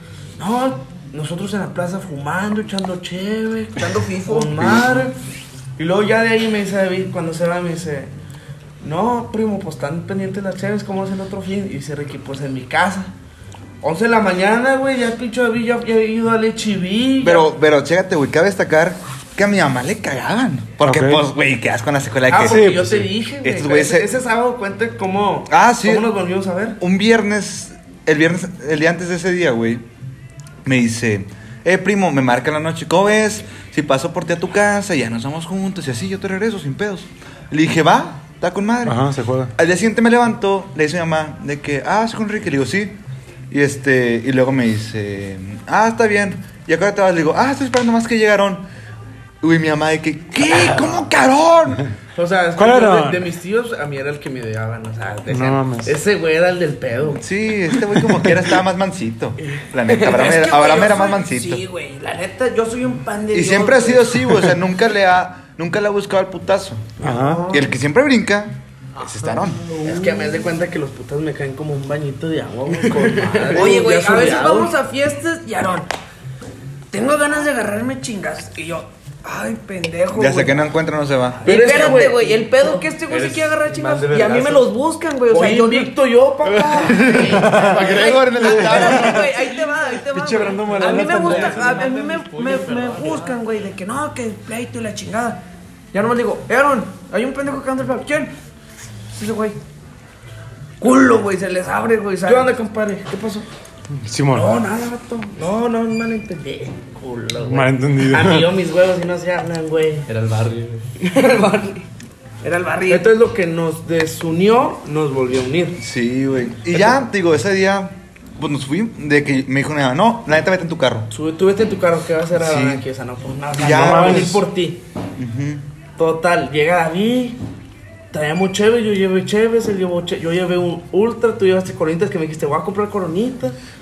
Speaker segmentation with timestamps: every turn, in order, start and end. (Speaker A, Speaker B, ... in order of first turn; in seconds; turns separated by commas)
Speaker A: 0.4-5.2, Speaker B: 3.8-4.7, Speaker A: 5.8-8.1, Speaker A: 8.8-13.1, Speaker A: 13.8-17.5, Speaker C: 17.2-24.1, Speaker D: 20.8-21.2, Speaker A: 22.3-26.8, Speaker D: 22.4-23.1, Speaker C: 25.5-26.1, Speaker C: 26.8-29.8, Speaker C: 30.6-43.0, Speaker D: 38.8-39.5, Speaker C: 43.5-48.6, Speaker C: 49.4-51.9, Speaker A: 52.1-57.2, Speaker D: 52.5-53.2, Speaker D: 55.3-55.9, Speaker C: 57.2-61.6, Speaker B: 59.9-64.3, Speaker C: 63.3-67.0, Speaker B: 67.0-67.7, Speaker D: 67.0-67.5, Speaker C: 67.5-69.6, Speaker B: 69.0-70.4, Speaker A: 69.8-74.7, Speaker B: 73.5-75.9, Speaker B: 76.9-80.7, Speaker C: 80.1-81.4, Speaker B: 81.4-85.9, Speaker A: 81.4-82.5, Speaker E: 83.0-84.7, Speaker A: 85.3-88.9, Speaker C: 86.5-89.3, Speaker B: 87.0-98.3, Speaker D: 90.1-91.6, Speaker E: 90.4-93.3, Speaker B: 99.1-99.6, Speaker B: 100.8-102.5, Speaker A: 102.2-103.5, Speaker D: 104.0-104.5, Speaker A: 104.3-110.1, Speaker D: 107.4-108.5, Speaker E: 110.1-110.9, Speaker A: 111.0-111.8, Speaker B: 112.4-113.1, Speaker A: 112.9-115.8, Speaker C: 115.8-121.1, Speaker A: 121.1-124.8, Speaker C: 122.4-122.8, Speaker C: 123.5-124.4, Speaker D: 123.7-124.4, Speaker C: 125.2-125.6, Speaker A: 126.0-127.4, Speaker A: 128.1-133.6